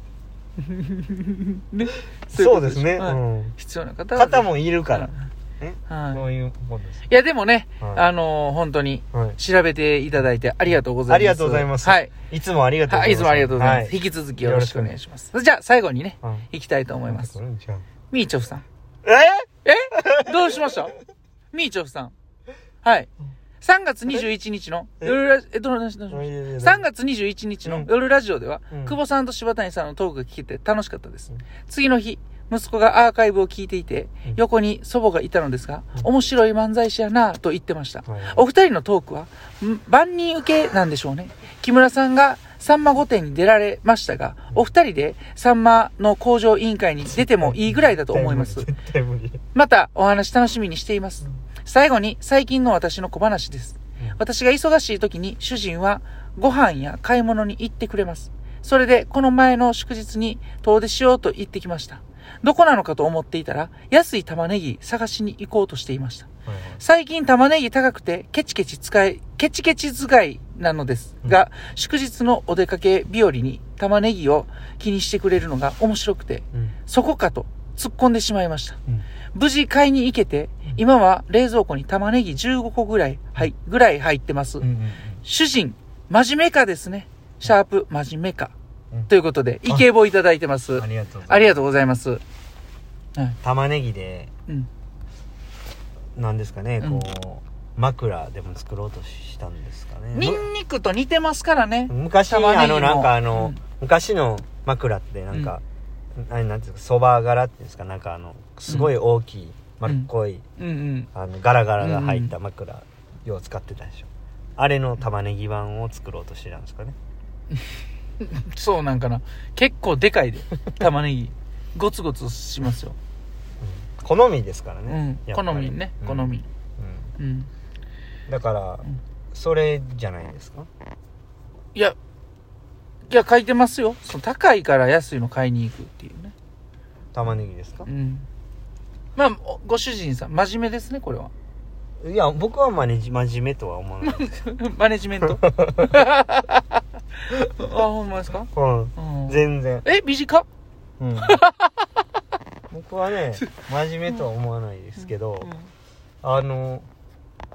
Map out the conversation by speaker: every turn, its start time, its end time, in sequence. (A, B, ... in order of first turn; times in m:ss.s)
0:00.6-0:05.3 A
0:02.3-0:03.6 B
0:04.2-0:07.0 B
0:05.9-0:06.2 A
0:07.1-0:12.1 A
0:07.8-0:08.1 B
0:09.1-0:09.4 B
0:11.1-0:15.0 B
0:12.9-0:17.4 A
0:17.0-0:17.8 B
0:18.1-0:18.6 A
0:19.0-0:20.8 B
0:19.6-0:21.0 A
0:21.5-0:22.1 A
0:22.8-0:48.7 A
0:26.1-0:26.8 B
0:27.6-0:27.9 B
0:28.7-0:29.0 B
0:38.1-0:38.4 B
0:47.1-0:49.4 B
0:49.5-1:06.3 A
1:06.5-1:06.8 B
1:06.8-1:18.8 A
1:19.3-1:24.7 A
1:24.6-1:25.2 B
1:25.2-1:28.5 A
1:29.1-1:32.2 A
1:30.8-1:31.6 B
1:33.4-1:34.3 B
1:36.2-1:40.5 B
1:36.8-1:37.1 A
1:40.1-1:43.6 A
1:41.9-1:45.6 B
1:46.2-1:50.4 B
1:48.7-1:48.9 A
1:50.6-1:51.1 A
1:51.1-1:57.0 B
1:51.8-1:52.3 A
1:58.2-2:03.0 A
2:03.6-2:07.1 B
2:04.9-2:06.5 A
2:07.2-2:07.5 A
2:08.3-2:10.7 B
2:13.1-2:16.3 A
2:17.1-2:17.9 B
2:17.9-2:18.3 A
2:19.2-2:21.3 A
2:22.0-2:24.4 B
2:24.0-2:30.5 A
2:25.2-2:26.0 B
2:28.5-2:29.9 B
2:31.0-2:31.4 B
2:31.2-2:31.8 A
2:32.7-2:35.5 B
2:35.0-2:35.7 A
2:36.2-2:36.9 B